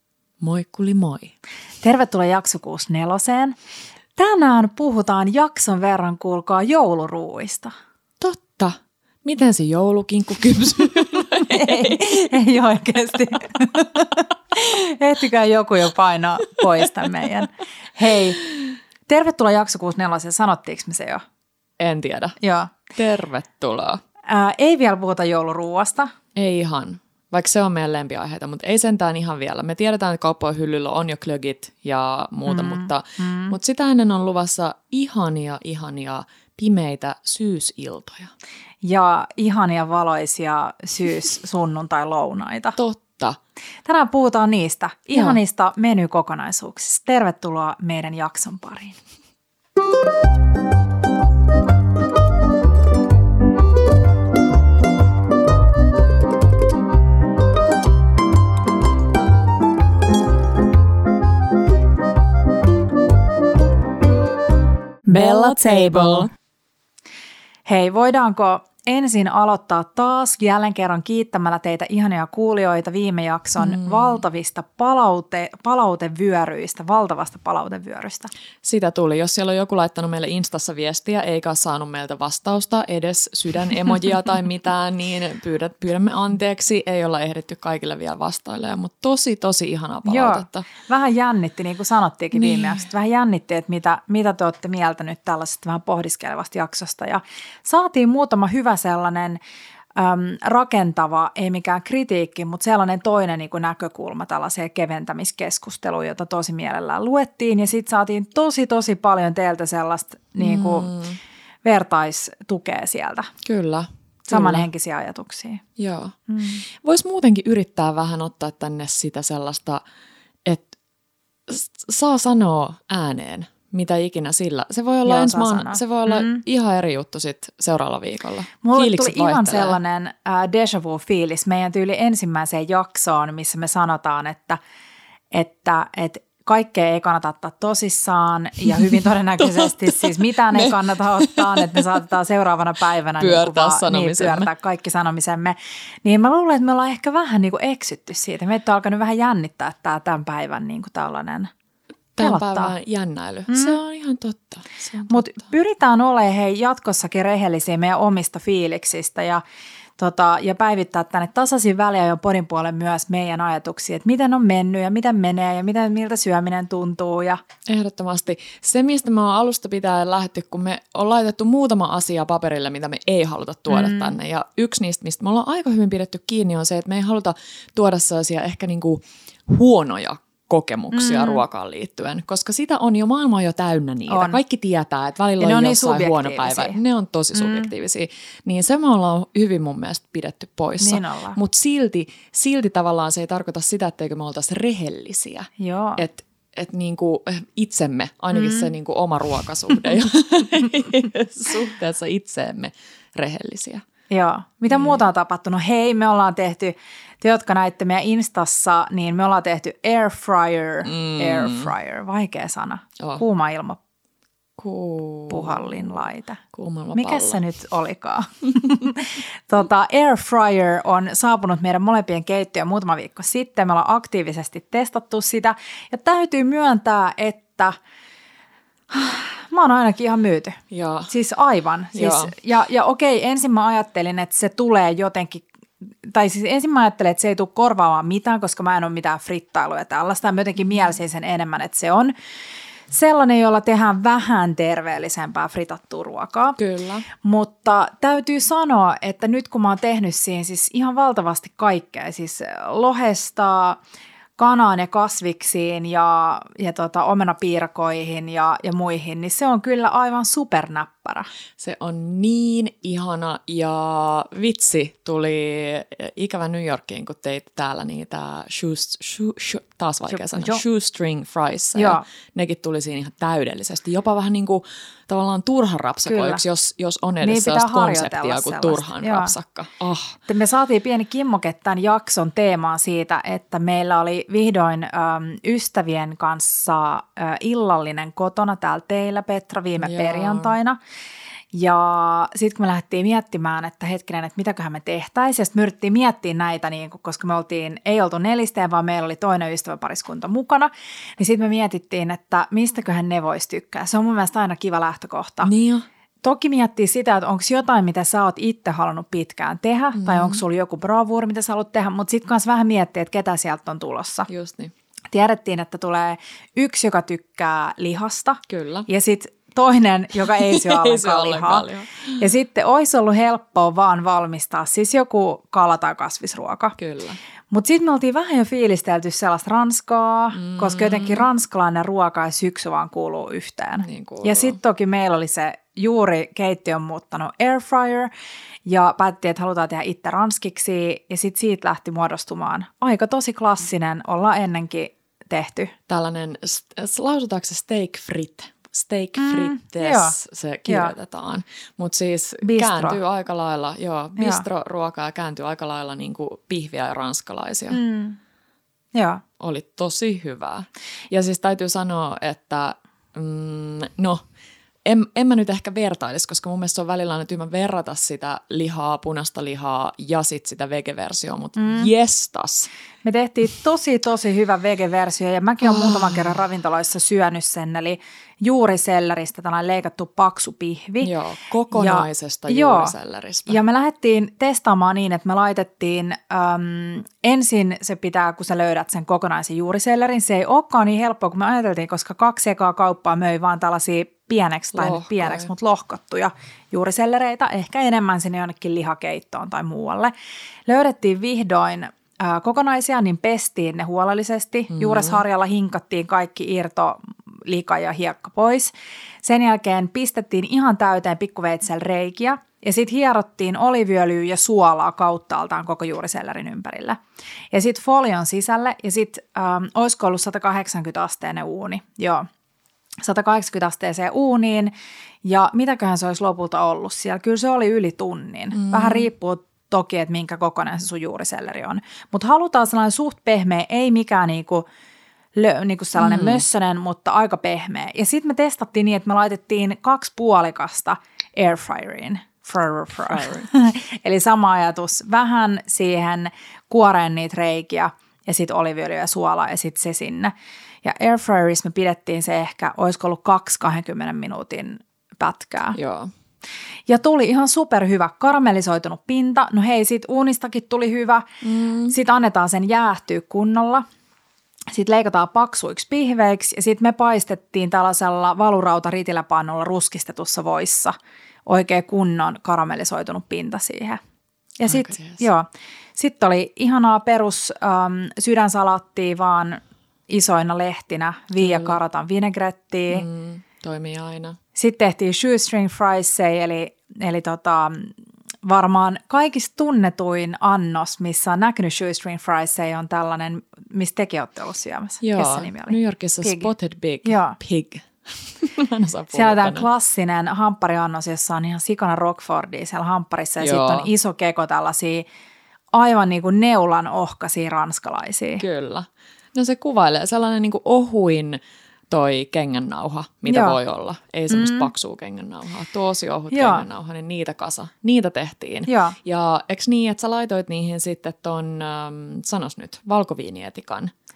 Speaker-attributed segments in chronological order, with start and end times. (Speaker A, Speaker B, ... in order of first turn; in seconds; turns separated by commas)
Speaker A: 0.4-1.4, Speaker B: 1.8-3.6, Speaker B: 4.2-7.8, Speaker A: 8.2-12.2, Speaker B: 11.3-18.4, Speaker B: 19.1-21.2, Speaker A: 21.8-22.4, Speaker B: 22.4-22.8, Speaker A: 22.9-24.0, Speaker B: 24.3-26.1, Speaker A: 26.4-38.3, Speaker B: 32.5-33.5, Speaker B: 38.8-42.8, Speaker A: 42.8-43.4, Speaker B: 43.9-49.0, Speaker A: 45.1-45.4, Speaker B: 65.1-66.3, Speaker A: 65.1-66.3, Speaker B: 67.7-78.3, Speaker A: 73.6-74.2, Speaker A: 78.6-90.7, Speaker B: 90.1-99.4, Speaker A: 92.3-92.8, Speaker B: 100.0-111.0, Speaker A: 110.4-111.2, Speaker B: 111.6-113.3, Speaker A: 113.4-114.7, Speaker B: 114.3-115.6, Speaker A: 115.8-116.2, Speaker B: 116.3-116.6, Speaker A: 116.7-119.8, Speaker A: 120.5-120.7, Speaker A: 121.5-129.8, Speaker B: 125.0-126.4, Speaker B: 128.6-134.6, Speaker B: 135.3-151.5, Speaker A: 138.7-141.8, Speaker A: 143.2-144.5, Speaker A: 152.2-155.3, Speaker B: 152.2-152.7, Speaker B: 153.5-153.8, Speaker B: 155.1-159.4, Speaker B: 160.0-167.4, Speaker A: 167.7-203.8, Speaker B: 173.7-174.2, Speaker B: 180.9-181.4, Speaker B: 184.1-184.4, Speaker B: 185.4-186.8, Speaker B: 187.3-187.7, Speaker B: 190.8-191.4, Speaker B: 195.6-196.0, Speaker B: 198.3-198.7, Speaker B: 204.1-213.8, Speaker A: 204.7-205.0, Speaker A: 210.8-211.7, Speaker A: 214.6-217.4, Speaker B: 215.3-216.4, Speaker B: 216.9-227.8, Speaker B: 228.9-235.5, Speaker A: 230.7-231.1, Speaker A: 231.9-232.3, Speaker B: 236.0-242.1, Speaker B: 242.9-246.6, Speaker A: 246.6-247.1, Speaker B: 247.2-253.8, Speaker B: 254.4-261.3, Speaker A: 261.6-280.2, Speaker B: 270.1-270.6, Speaker B: 271.8-272.0, Speaker B: 276.1-276.4, Speaker B: 277.2-279.3, Speaker B: 280.3-290.8, Speaker A: 289.8-290.6, Speaker B: 291.5-305.5, Speaker A: 305.4-305.9, Speaker B: 306.2-314.3, Speaker A: 309.9-310.4, Speaker A: 314.3-314.7, Speaker B: 315.1-321.7, Speaker A: 318.5-318.9, Speaker A: 320.2-322.2, Speaker B: 322.2-326.8, Speaker A: 326.8-327.2, Speaker B: 327.5-338.1, Speaker A: 330.3-331.3, Speaker A: 333.8-334.6, Speaker B: 338.7-345.7, Speaker A: 345.9-357.8, Speaker B: 349.2-350.2, Speaker B: 350.7-350.9, Speaker B: 352.4-353.0, Speaker B: 354.2-354.4, Speaker B: 357.7-358.2, Speaker B: 358.9-359.2, Speaker A: 359.4-364.2, Speaker A: 364.9-372.7, Speaker B: 371.6-371.9, Speaker B: 373.0-381.1, Speaker A: 375.6-376.4, Speaker A: 381.0-383.6, Speaker B: 381.7-382.9, Speaker B: 383.5-400.1, Speaker A: 394.7-395.5, Speaker B: 400.7-408.7, Speaker A: 404.7-405.2, Speaker B: 409.2-417.0, Speaker B: 417.5-422.3, Speaker B: 423.0-424.7, Speaker B: 425.2-434.7, Speaker A: 428.5-429.1, Speaker B: 435.4-450.3, Speaker A: 436.0-436.4, Speaker A: 443.1-443.5, Speaker B: 450.8-455.8, Speaker A: 455.8-456.1, Speaker B: 456.9-461.3, Speaker A: 461.4-461.9, Speaker B: 461.9-463.9, Speaker B: 464.7-470.9, Speaker B: 471.5-474.0, Speaker B: 474.6-483.1, Speaker A: 474.7-475.2, Speaker A: 481.4-481.8, Speaker A: 482.9-484.4, Speaker B: 484.6-496.5, Speaker A: 495.0-499.7, Speaker B: 497.1-497.4, Speaker B: 499.1-505.1, Speaker A: 503.4-503.9, Speaker B: 505.7-508.4, Speaker A: 508.4-523.9, Speaker B: 513.3-513.6, Speaker B: 514.3-514.7, Speaker B: 516.3-516.7, Speaker B: 518.7-519.0